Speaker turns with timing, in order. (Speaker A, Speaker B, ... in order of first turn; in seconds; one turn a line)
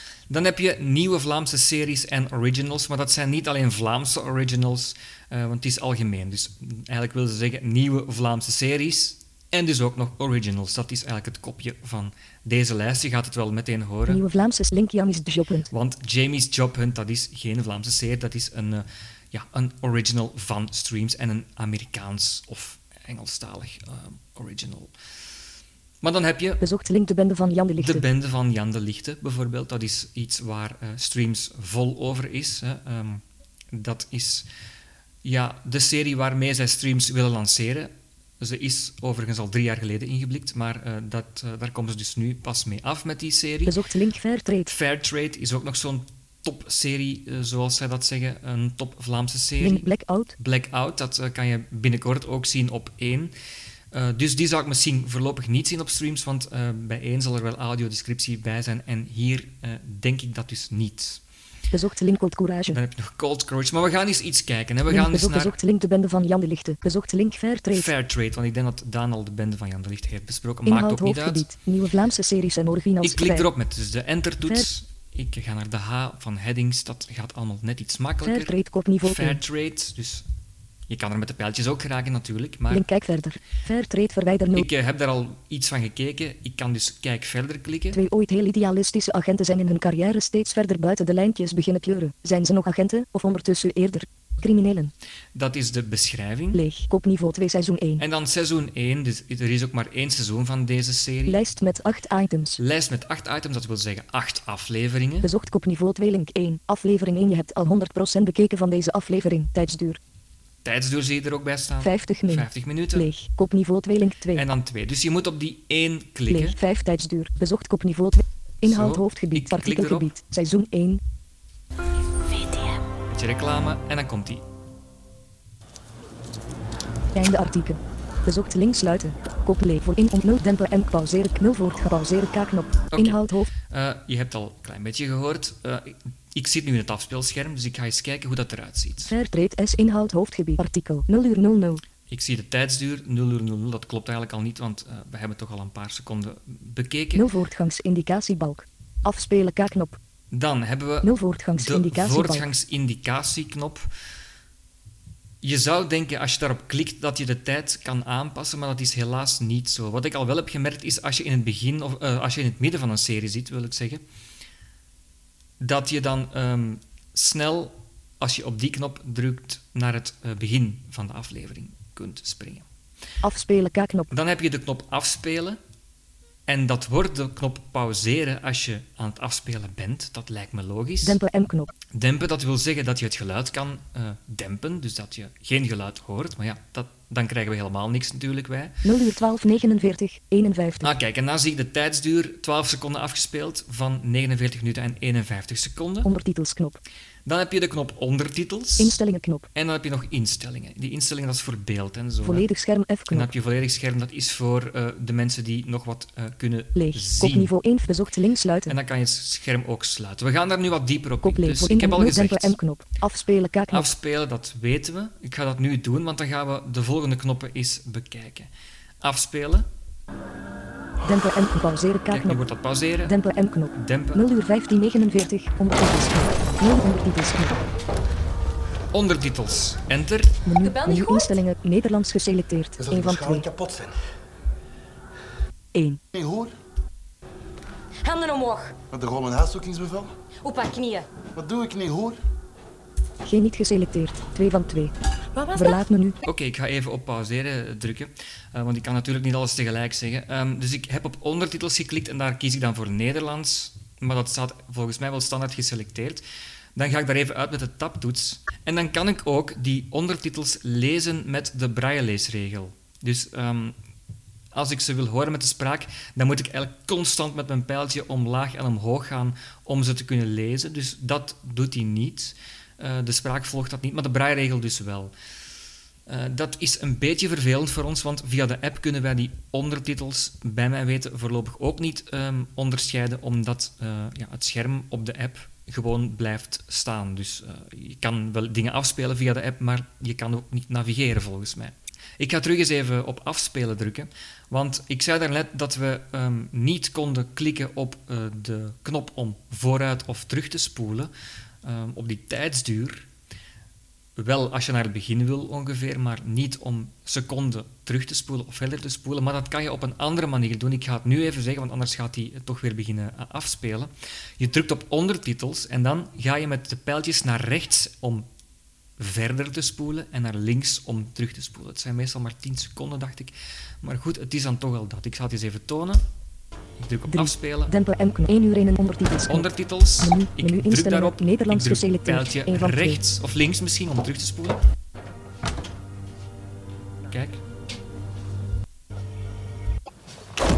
Speaker A: 0.3-14.2
Speaker B: 14.1-15.7
Speaker A: 15.7-24.9
Speaker A: 26.0-26.6
Speaker B: 26.6-28.0
Speaker A: 27.8-34.5
Speaker A: 35.2-43.8
Speaker B: 43.6-44.7
Speaker A: 44.6-53.3
Speaker B: 49.6-50.4
Speaker A: 53.9-61.2
Speaker B: 61.7-62.8
Speaker A: 62.7-65.5
Speaker B: 64.9-67.9
Speaker A: 67.7-71.5
Speaker B: 70.7-73.5
Speaker A: 73.0-80.2
Speaker B: 78.2-79.4
Speaker A: 80.9-82.8
Speaker B: 82.7-84.7
Speaker A: 84.5-88.0
Speaker B: 87.9-94.9
Speaker A: 95.3-96.6
Speaker B: 96.5-98.0
Speaker A: 98.0-101.4
Speaker B: 101.3-102.6
Speaker A: 102.6-105.3
Speaker B: 105.2-110.0
Speaker A: 110.6-113.1
Speaker B: 111.8-114.5
Speaker A: 114.3-116.6
Speaker B: 116.3-121.0
Speaker A: 118.6-120.1
Speaker A: 123.1-124.4
Speaker B: 127.1-133.5
Speaker A: 132.9-139.1
Speaker B: 139.1-141.8
Speaker A: 142.1-147.3
Speaker B: 147.1-150.0
Speaker A: 150.3-153.9
Speaker B: 151.0-152.5
Speaker A: 155.4-164.0
Speaker A: 165.6-172.6
Speaker B: 173.2-174.1
Speaker A: 174.1-175.6
Speaker A: 176.5-181.2
Speaker B: 181.0-181.7
Speaker A: 181.9-188.8
Speaker B: 188.8-190.9
Speaker A: 190.8-196.1
Speaker B: 196.0-196.8
Speaker A: 197.2-199.0
Speaker B: 198.8-199.5
Speaker A: 199.5-202.4
Speaker B: 202.2-203.3
Speaker A: 203.1-207.5
Speaker B: 206.7-208.8
Speaker A: 208.7-212.6
Speaker B: 211.2-213.9
Speaker A: 213.7-218.5
Speaker A: 219.0-219.7
Speaker B: 221.0-222.4
Speaker A: 222.1-223.1
Speaker B: 223.0-227.6
Speaker A: 223.8-224.2
Speaker A: 228.9-230.4
Speaker B: 230.4-233.5
Speaker C: 230.6-231.4
Speaker D: 232.8-234.0
Speaker B: 235.7-236.0
Speaker D: 236.1-236.5
Speaker C: 238.0-238.7
Speaker D: 238.9-240.1
Speaker C: 240.4-241.1
Speaker D: 241.3-242.2
Speaker B: 243.2-244.9
Speaker C: 245.3-245.8
Speaker B: 245.5-246.2
Speaker A: 246.2-256.2
Speaker A: 256.8-263.8
Speaker A: 264.5-275.1
Speaker A: 276.1-301.1
Speaker A: 301.6-303.1
Speaker A: 304.1-318.3
Speaker A: 319.0-326.0
Speaker A: 326.8-327.7
Speaker B: 327.1-329.5
Speaker A: 329.3-334.6
Speaker B: 330.0-333.0
Speaker A: 337.1-337.4